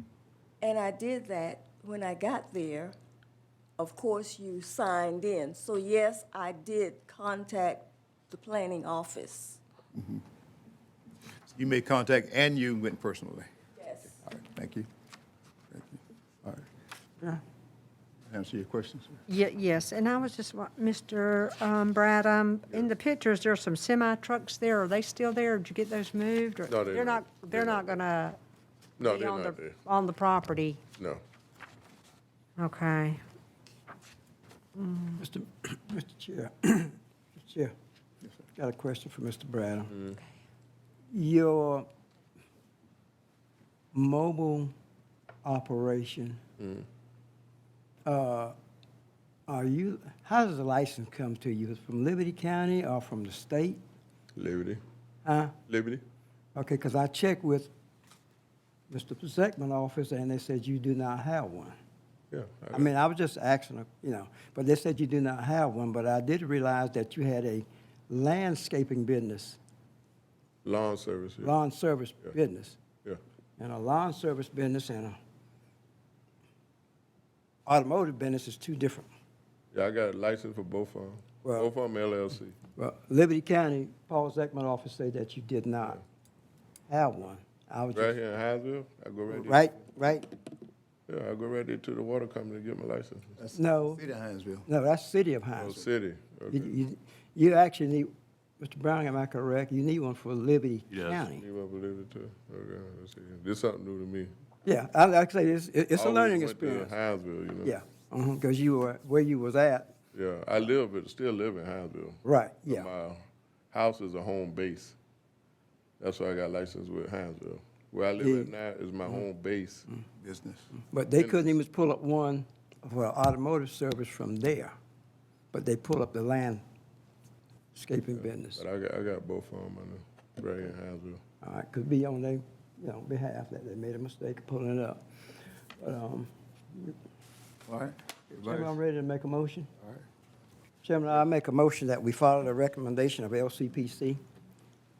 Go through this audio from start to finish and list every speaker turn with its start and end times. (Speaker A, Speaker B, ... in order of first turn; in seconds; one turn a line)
Speaker A: 0.6-3.0
Speaker A: 3.8-9.6
Speaker B: 10.0-10.2
Speaker B: 11.5-13.5
Speaker A: 13.8-14.1
Speaker B: 14.2-14.9
Speaker B: 15.7-16.6
Speaker B: 18.3-19.2
Speaker C: 19.3-28.4
Speaker D: 26.7-28.0
Speaker D: 29.0-29.8
Speaker C: 29.0-30.8
Speaker C: 32.6-33.2
Speaker C: 34.8-35.2
Speaker E: 35.2-37.7
Speaker E: 38.6-39.9
Speaker E: 41.1-41.9
Speaker E: 43.9-44.7
Speaker E: 45.4-46.4
Speaker D: 46.6-46.9
Speaker E: 48.0-48.5
Speaker E: 49.5-53.8
Speaker D: 54.4-54.8
Speaker E: 55.2-55.5
Speaker D: 55.7-56.0
Speaker E: 56.5-57.7
Speaker E: 58.9-61.8
Speaker D: 62.3-62.9
Speaker E: 62.7-69.6
Speaker D: 70.7-71.6
Speaker E: 71.4-72.8
Speaker E: 73.6-75.2
Speaker E: 77.7-79.1
Speaker D: 79.7-82.6
Speaker E: 81.4-81.7
Speaker E: 82.8-86.0
Speaker E: 86.9-88.2
Speaker D: 87.9-89.7
Speaker E: 89.3-90.3
Speaker D: 91.1-93.3
Speaker B: 93.4-94.7
Speaker E: 93.5-94.0
Speaker E: 94.7-95.9
Speaker D: 95.6-96.8
Speaker E: 96.5-101.4
Speaker D: 101.3-104.3
Speaker E: 104.7-106.9
Speaker D: 106.0-107.8
Speaker E: 107.6-109.9
Speaker D: 110.1-115.0
Speaker E: 112.2-112.9
Speaker D: 116.0-119.9
Speaker E: 118.2-118.5
Speaker B: 120.2-120.7
Speaker E: 120.9-124.8
Speaker E: 125.5-126.6
Speaker E: 127.7-128.6
Speaker D: 128.2-131.2
Speaker E: 131.4-135.0
Speaker E: 135.8-136.9
Speaker B: 137.7-138.8
Speaker E: 138.4-139.7
Speaker E: 140.8-144.2